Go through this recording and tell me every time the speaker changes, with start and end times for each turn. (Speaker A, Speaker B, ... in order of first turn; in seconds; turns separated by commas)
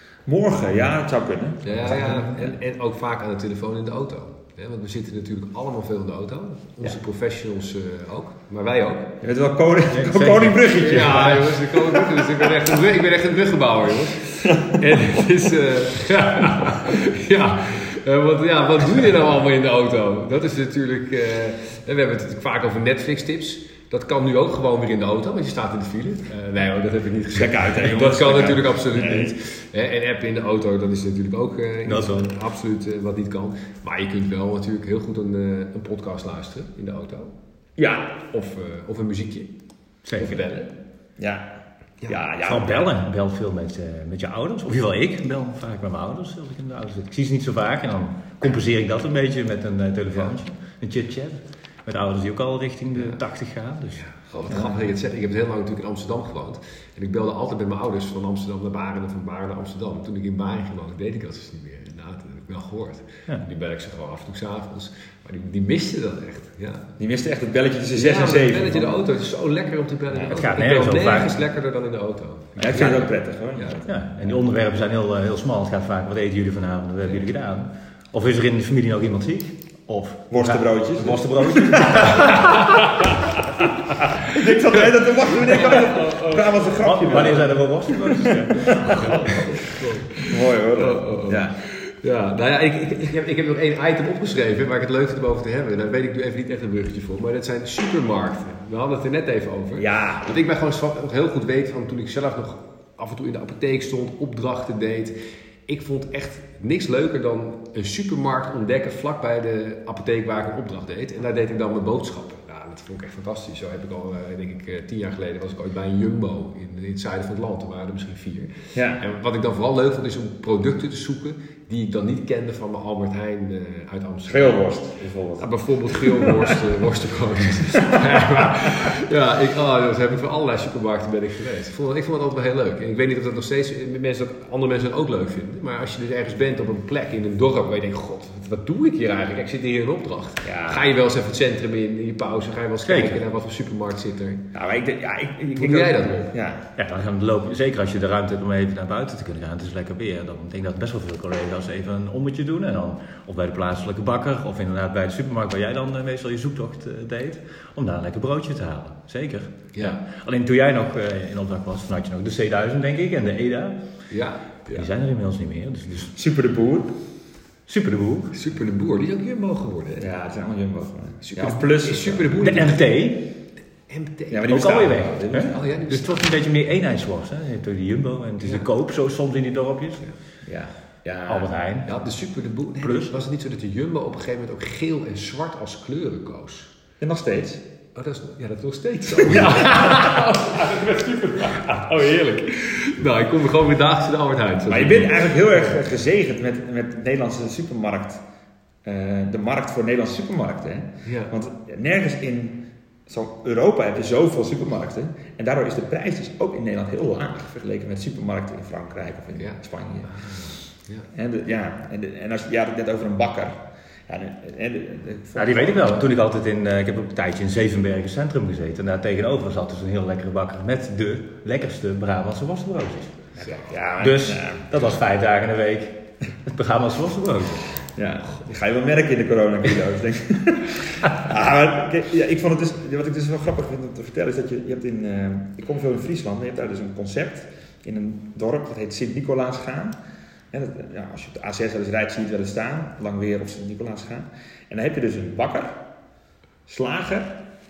Speaker A: 0.2-2.3, Speaker B: 1.6-9.1, Speaker C: 1.9-2.3, Speaker A: 9.2-12.2, Speaker C: 9.9-11.4, Speaker B: 10.7-37.3, Speaker A: 27.3-29.4, Speaker C: 31.8-32.3, Speaker A: 37.8-38.1, Speaker B: 38.3-39.5, Speaker C: 40.0-40.4, Speaker B: 40.1-40.7, Speaker A: 41.2-41.5, Speaker A: 42.0-42.9, Speaker C: 42.4-54.6, Speaker B: 53.9-66.9, Speaker A: 54.5-54.7, Speaker A: 67.0-69.0, Speaker B: 67.9-73.8, Speaker C: 70.3-71.3, Speaker A: 72.6-73.9, Speaker C: 73.8-82.8, Speaker A: 80.3-82.4, Speaker A: 84.2-89.5, Speaker B: 85.4-86.5, Speaker C: 86.8-89.2, Speaker B: 88.6-105.1, Speaker A: 90.2-91.6, Speaker A: 99.8-100.3, Speaker B: 105.7-124.8, Speaker A: 118.7-119.0, Speaker A: 124.3-126.5, Speaker B: 125.4-144.5, Speaker A: 140.4-140.9, Speaker C: 142.8-143.2, Speaker A: 144.5-146.6, Speaker B: 145.6-146.3, Speaker C: 146.8-163.8, Speaker B: 159.7-160.0, Speaker B: 164.1-164.9, Speaker C: 164.7-166.1, Speaker A: 166.1-166.9, Speaker C: 167.7-168.3, Speaker B: 168.3-170.1, Speaker A: 170.0-172.5, Speaker B: 171.2-172.9, Speaker C: 172.4-173.3, Speaker B: 173.9-174.7, Speaker A: 174.3-175.7, Speaker C: 174.5-180.0, Speaker B: 175.4-176.3, Speaker B: 178.4-178.7, Speaker A: 180.4-181.5, Speaker C: 181.3-181.9, Speaker B: 181.8-186.7, Speaker C: 182.8-183.1, Speaker A: 187.0-187.6, Speaker B: 187.9-195.7, Speaker A: 189.1-190.1, Speaker A: 194.7-198.2, Speaker A: 198.8-210.6, Speaker B: 201.0-201.3, Speaker B: 209.4-211.1, Speaker A: 211.1-216.0, Speaker C: 215.3-223.3, Speaker A: 223.3-224.7, Speaker C: 224.0-227.7, Speaker A: 227.8-240.0, Speaker A: 240.5-245.8, Speaker A: 246.7-247.4